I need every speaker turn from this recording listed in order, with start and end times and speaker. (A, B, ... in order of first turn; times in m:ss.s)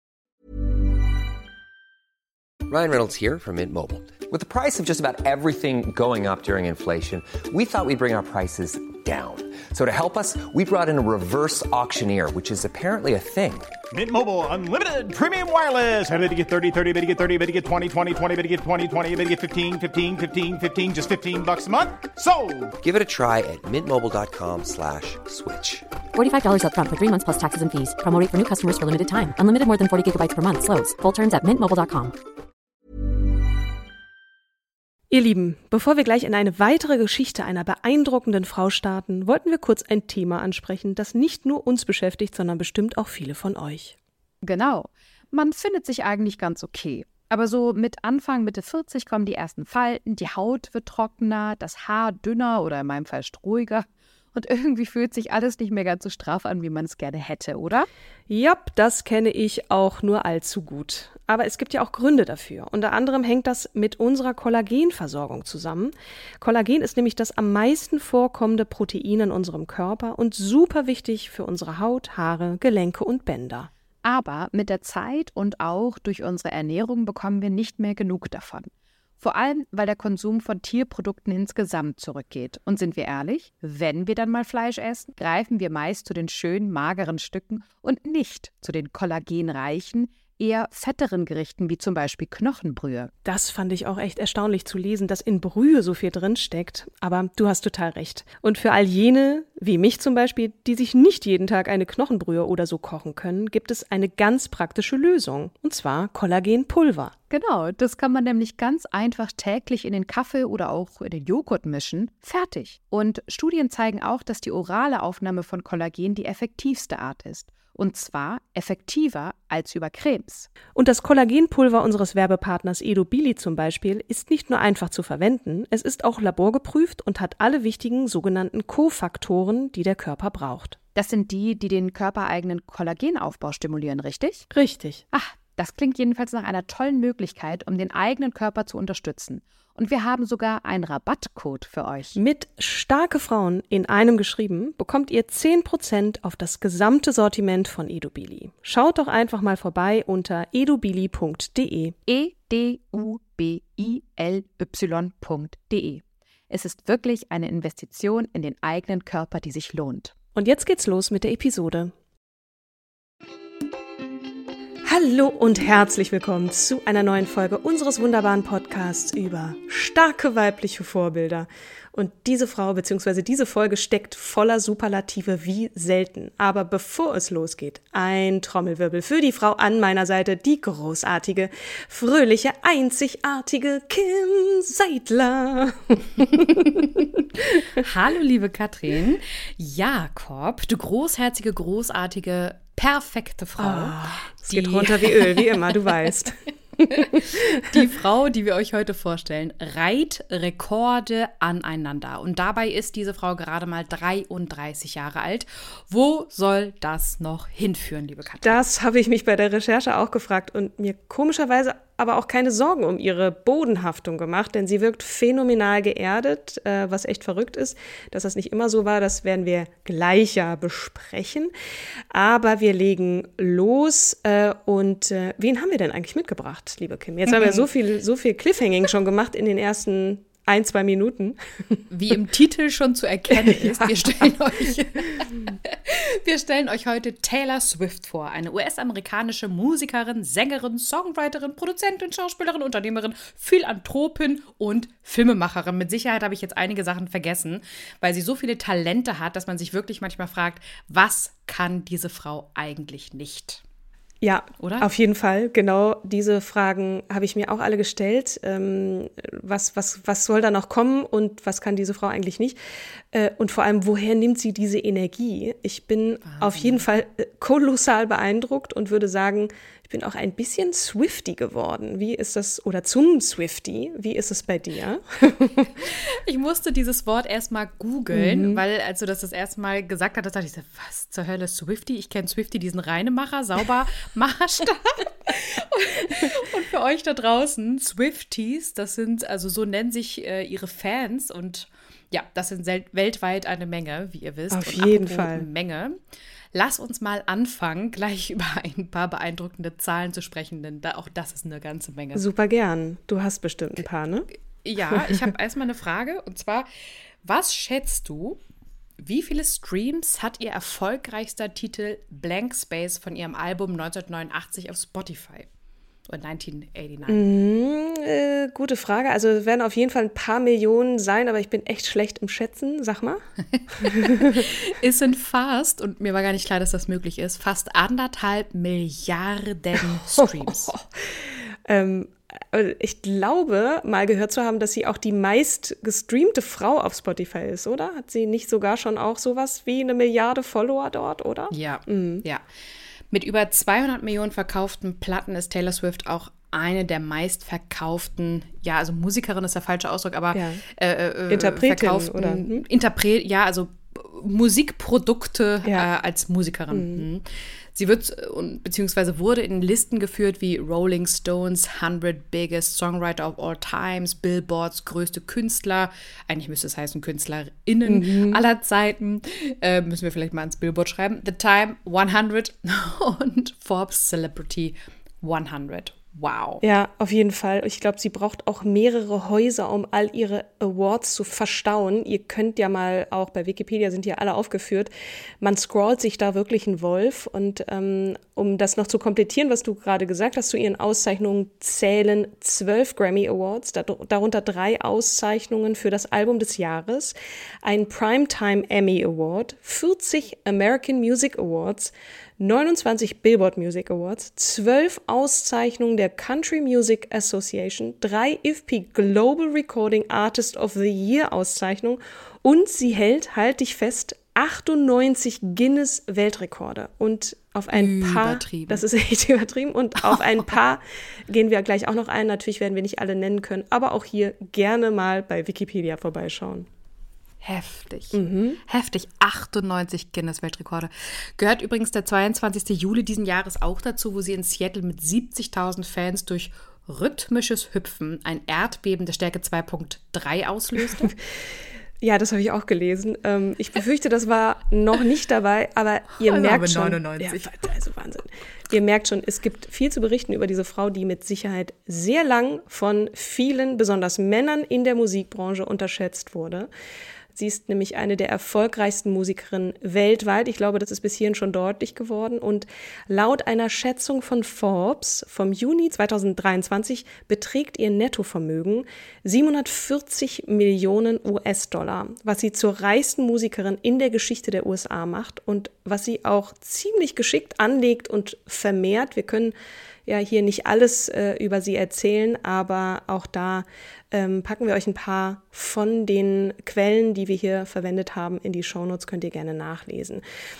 0:02.7-0:13.8 A
0:13.9-0:22.7 B
0:22.8-0:25.9 A
0:26.2-0:32.1 C
0:35.1-0:44.0 D
0:44.4-0:57.9 E
0:58.3-1:13.7 D
1:14.0-1:18.7 E
1:19.2-1:33.1 E
1:33.2-1:47.1 D
1:47.3-2:00.5 E
2:00.7-2:10.8 D
2:11.0-2:14.5 E
2:14.5-2:15.0 D
2:15.1-2:22.2 E
2:22.2-2:32.0 D
2:32.1-2:40.1 E
2:40.4-2:41.9 D
2:44.8-3:07.0 D
3:07.8-3:14.0 E
3:13.6-3:17.6 D
3:14.5-3:15.5 E
3:16.9-3:28.6 E
3:28.4-3:41.5 D
3:42.1-3:51.8 D
3:51.9-4:13.6 E
3:53.4-3:54.1 D
4:14.2-4:22.6 D
4:14.6-4:14.9 E
4:23.1-4:35.8 D
4:26.3-4:26.8 E
4:35.8-4:56.0 E
4:38.1-4:38.6 D
4:54.5-4:55.4 D
4:56.5-5:02.2 E
5:02.1-5:04.3 D
5:04.6-5:06.7 E
5:07.2-5:08.4 E
5:09.0-5:15.5 E
5:16.1-5:17.2 E
5:17.1-5:23.2 D
5:23.8-5:24.5 D
5:23.8-5:30.7 E
5:29.9-5:42.2 D
5:41.5-5:42.4 E
5:43.1-6:16.6 E
5:50.3-5:50.6 D
5:51.3-5:52.6 D
5:56.7-5:57.0 D
6:07.9-6:08.4 D
6:16.6-6:24.9 D
6:25.4-7:06.7 D
6:57.7-6:58.8 E
7:07.4-7:21.1 E
7:08.1-7:08.6 D
7:22.0-7:36.7 D
7:26.2-7:27.5 E
7:37.3-7:59.6 D
8:00.1-8:10.2 D